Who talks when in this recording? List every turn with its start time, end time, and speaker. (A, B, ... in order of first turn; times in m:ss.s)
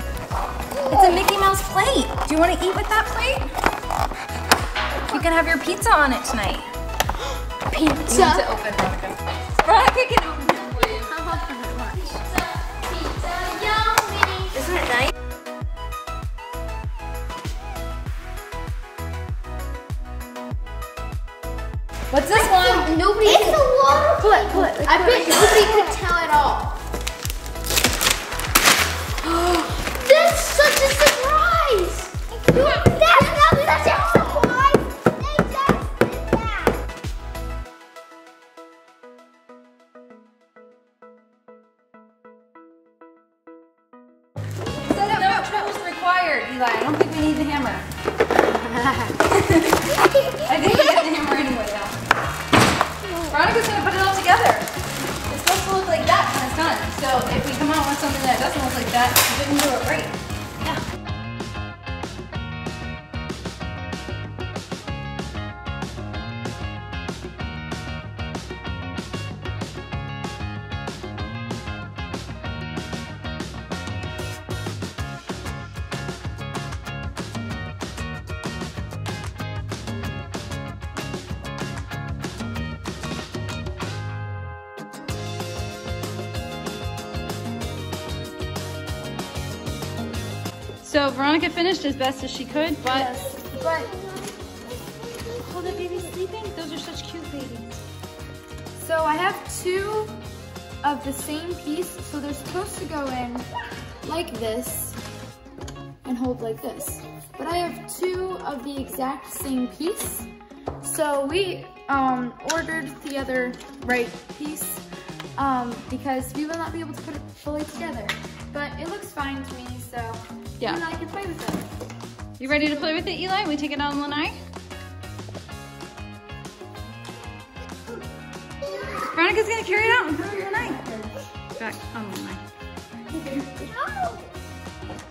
0:00.7-0:01.2 A
0:00.9-0:03.5 B
0:05.1-0:06.6 B
0:07.7-0:08.8 C
0:08.1-0:12.0 B
0:12.1-0:14.5 C
0:14.5-0:15.1 B
0:22.1-0:22.9 B
0:22.4-0:26.8 C
0:23.2-0:26.0 A
0:29.2-0:34.4 C
0:32.5-0:36.8 A
0:44.8-0:47.8 B
0:49.2-0:52.0 B
0:49.9-0:51.0 A
0:53.3-0:54.7 B
0:55.3-1:00.8 B
1:30.8-1:33.1 B
1:32.8-1:33.9 C
1:33.4-1:36.1 A
1:35.4-1:37.8 B
1:38.8-1:40.2 C
1:40.8-1:43.5 C
1:44.0-1:45.0 C
1:46.0-1:50.3 C
1:50.8-1:54.8 C
1:55.4-2:01.6 C
2:02.4-2:04.4 B
2:08.7-2:09.1 A
2:09.0-2:10.8 B
2:10.3-2:11.1 C
2:11.6-2:12.4 B
2:13.3-2:14.3 A